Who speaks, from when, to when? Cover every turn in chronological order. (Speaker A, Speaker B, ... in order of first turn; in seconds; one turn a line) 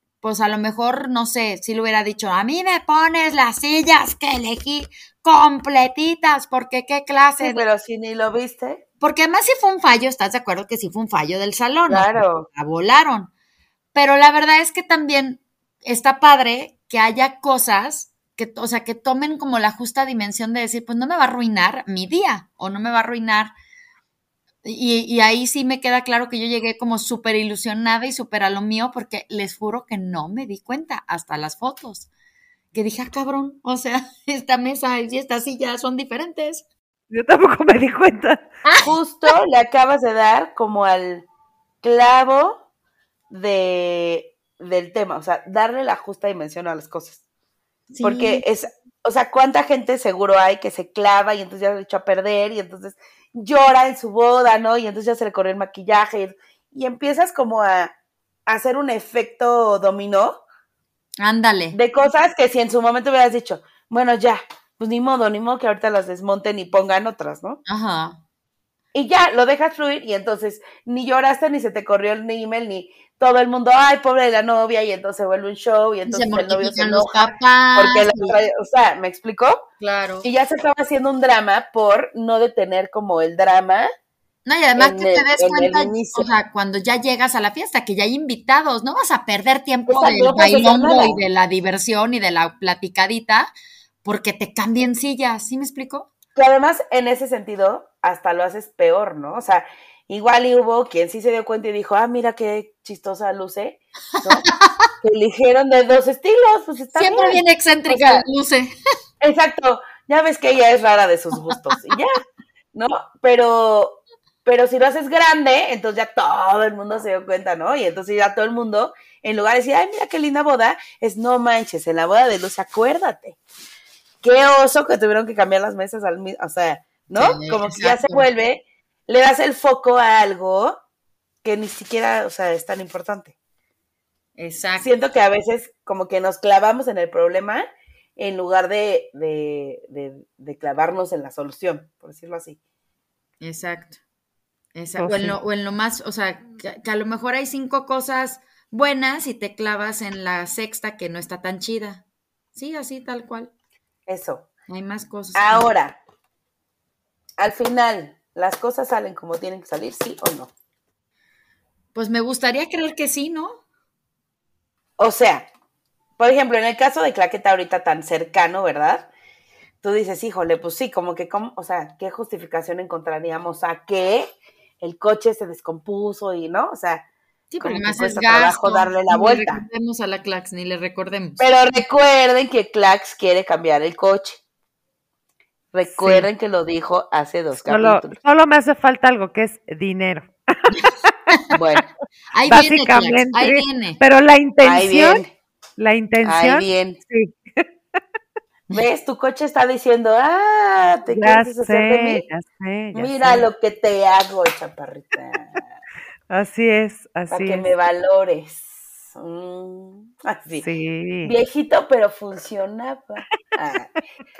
Speaker A: 0.2-7.6
Speaker B: 7.4-8.8
Speaker A: 9.0-13.3
Speaker B: 11.9-12.5
Speaker A: 13.9-23.5
Speaker A: 24.6-32.1
Speaker A: 32.7-36.6
Speaker C: 37.1-38.5
Speaker A: 38.7-39.3
Speaker B: 38.8-41.3
Speaker B: 41.8-42.6
Speaker B: 43.3-47.2
Speaker A: 47.9-48.4
Speaker B: 48.0-57.9
Speaker B: 58.5-60.4
Speaker A: 61.2-61.8
Speaker B: 61.7-67.6
Speaker A: 67.7-68.2
Speaker B: 68.9-79.6
Speaker A: 76.1-78.4
Speaker A: 79.8-80.3
Speaker B: 80.2-83.9
Speaker A: 84.5-93.5
Speaker B: 84.8-86.3
Speaker B: 89.9-91.2
Speaker A: 94.0-96.1
Speaker B: 96.3-104.4
Speaker A: 104.2-104.7
Speaker B: 105.0-108.2
Speaker A: 106.9-108.7
Speaker B: 109.2-112.2
Speaker B: 112.7-123.4
Speaker B: 124.2-130.8
Speaker A: 127.1-128.2
Speaker B: 131.4-133.3
Speaker A: 134.4-134.9
Speaker B: 134.8-137.6
Speaker B: 138.2-142.6
Speaker A: 143.4-144.0
Speaker A: 144.7-152.0
Speaker C: 145.0-145.3
Speaker A: 152.5-153.5
Speaker B: 154.1-154.5
Speaker A: 154.7-155.7
Speaker B: 155.3-156.0
Speaker B: 157.4-160.5
Speaker A: 161.9-163.6
Speaker B: 165.0-165.5
Speaker B: 166.2-169.1
Speaker B: 169.8-177.0
Speaker A: 177.5-181.4
Speaker B: 177.6-179.6
Speaker B: 181.4-184.4
Speaker B: 185.7-188.2
Speaker C: 185.9-186.3
Speaker C: 187.6-191.1
Speaker B: 191.5-191.9
Speaker A: 192.3-194.0
Speaker C: 192.4-195.2
Speaker B: 194.6-195.3
Speaker C: 195.8-197.7
Speaker B: 196.2-197.0
Speaker B: 198.7-202.2
Speaker C: 201.1-203.5
Speaker B: 202.9-205.7
Speaker C: 206.3-207.7
Speaker B: 207.3-210.7
Speaker C: 210.6-211.3
Speaker B: 211.2-213.9